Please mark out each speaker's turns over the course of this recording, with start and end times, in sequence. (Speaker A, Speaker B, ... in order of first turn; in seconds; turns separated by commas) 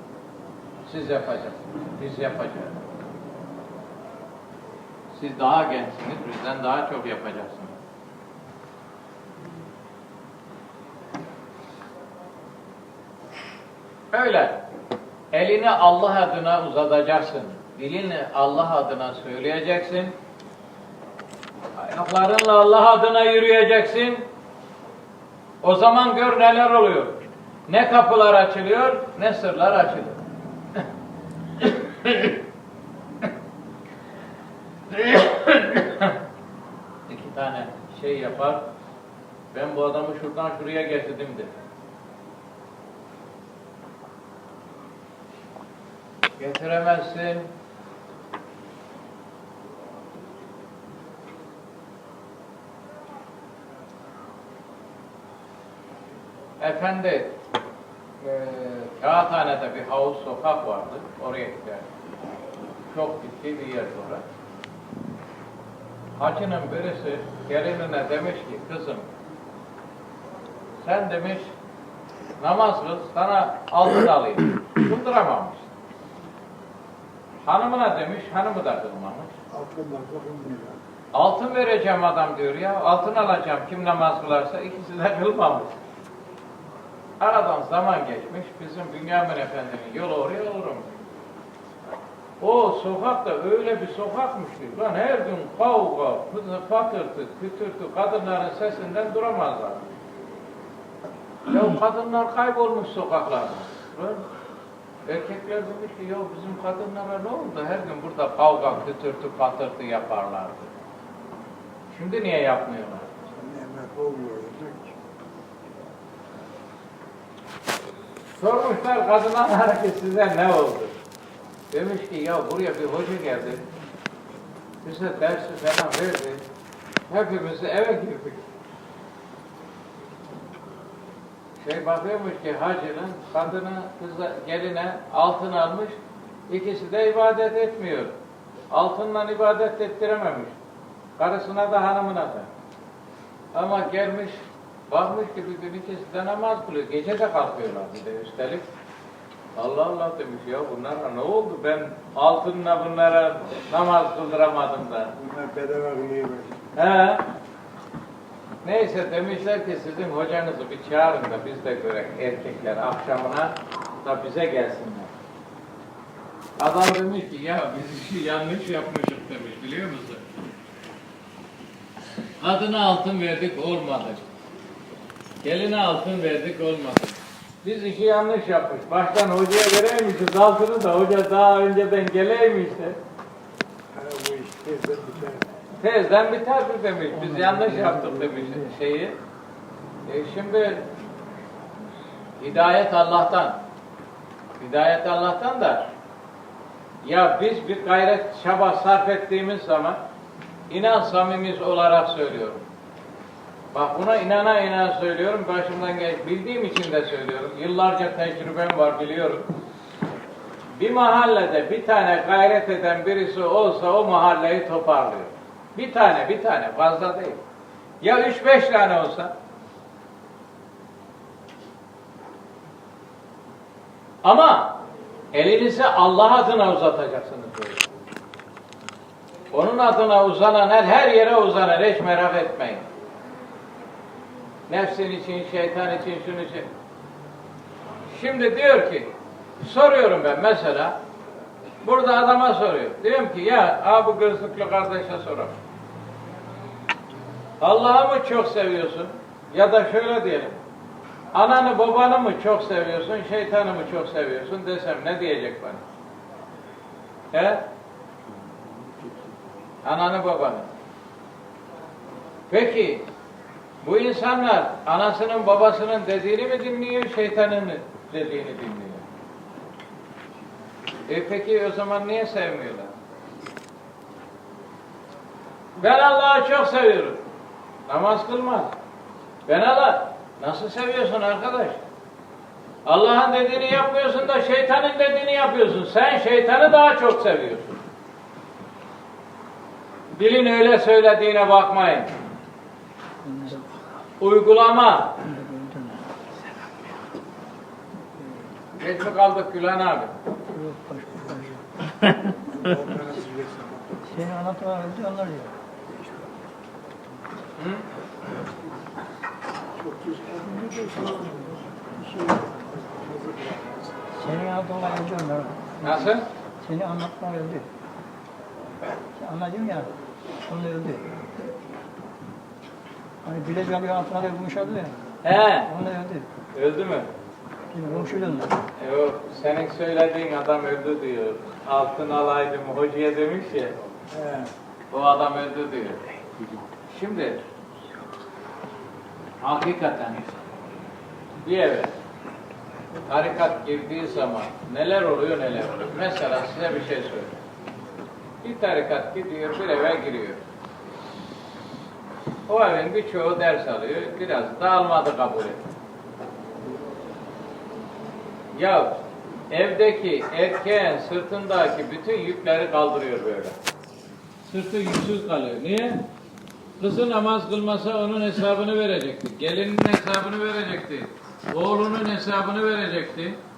Speaker A: 0.8-2.8, Speaker A: 5.1-7.8, Speaker A: 14.1-14.6, Speaker A: 15.3-20.1, Speaker A: 21.8-24.2, Speaker A: 25.6-30.2, Speaker A: 32.0-32.3, Speaker A: 34.9-36.1, Speaker A: 37.1-38.6, Speaker A: 39.5-41.5, Speaker A: 46.4-47.5, Speaker A: 56.6-57.4, Speaker A: 58.2-61.8, Speaker A: 62.9-64.2, Speaker A: 66.2-69.1, Speaker A: 70.8-71.5, Speaker A: 72.4-75.7, Speaker A: 77.4-79.3, Speaker B: 79.5-80.8, Speaker A: 81.1-85.8, Speaker A: 87.2-90.9, Speaker A: 92.4-99.9, Speaker A: 101.5-104.2, Speaker A: 105.0-110.7, Speaker A: 111.9-113.1, Speaker B: 113.3-115.0, Speaker A: 118.2-121.0, Speaker A: 121.7-123.6, Speaker A: 124.8-126.4, Speaker A: 127.1-128.4, Speaker A: 131.6-136.0, Speaker A: 136.5-138.2, Speaker A: 138.7-140.5, Speaker A: 141.2-142.5, Speaker A: 143.5-144.4, Speaker A: 144.9-148.7, Speaker A: 149.5-155.1, Speaker B: 155.2-156.7, Speaker A: 156.7-157.3, Speaker A: 158.6-165.1, Speaker A: 166.6-170.2, Speaker A: 172.4-174.2, Speaker A: 175.4-183.0, Speaker B: 183.9-185.5, Speaker A: 185.8-189.2, Speaker C: 187.1-188.7, Speaker A: 190.1-190.9, Speaker A: 192.4-193.6, Speaker A: 194.6-195.9, Speaker A: 197.0-200.0, Speaker A: 200.7-202.6, Speaker A: 203.7-209.5, Speaker A: 210.7-217.4, Speaker A: 218.0-219.3, Speaker A: 224.2-224.7, Speaker A: 225.3-227.8, Speaker A: 229.5-232.8, Speaker A: 234.7-236.7, Speaker A: 238.1-240.9, Speaker A: 241.8-245.5, Speaker A: 247.6-250.6, Speaker A: 251.3-255.8, Speaker A: 257.3-257.6, Speaker A: 259.8-260.7, Speaker A: 262.5-263.0, Speaker A: 263.8-269.0, Speaker A: 271.1-272.9, Speaker A: 275.8-277.2, Speaker A: 277.9-278.7, Speaker A: 279.5-281.8, Speaker A: 282.9-287.8, Speaker A: 290.1-292.1, Speaker C: 293.2-293.7, Speaker A: 294.2-295.1, Speaker C: 295.2-296.0, Speaker A: 298.8-300.1, Speaker C: 300.5-302.1, Speaker B: 302.3-304.1, Speaker C: 304.1-305.5, Speaker B: 306.0-306.2, Speaker A: 307.6-307.8, Speaker B: 309.8-314.1, Speaker C: 314.2-317.7, Speaker A: 315.8-316.3, Speaker C: 319.1-319.9, Speaker C: 320.4-321.1, Speaker C: 323.2-324.9, Speaker A: 325.2-325.7, Speaker C: 325.6-326.3, Speaker A: 326.5-327.1, Speaker C: 327.7-328.6, Speaker A: 328.8-333.7, Speaker B: 334.1-334.5, Speaker A: 334.9-336.0, Speaker A: 336.9-337.4, Speaker A: 339.4-340.3, Speaker A: 341.4-341.9, Speaker A: 343.1-347.4, Speaker A: 348.4-350.4, Speaker A: 352.5-355.6, Speaker A: 358.5-363.6, Speaker A: 364.5-366.1, Speaker A: 366.8-373.4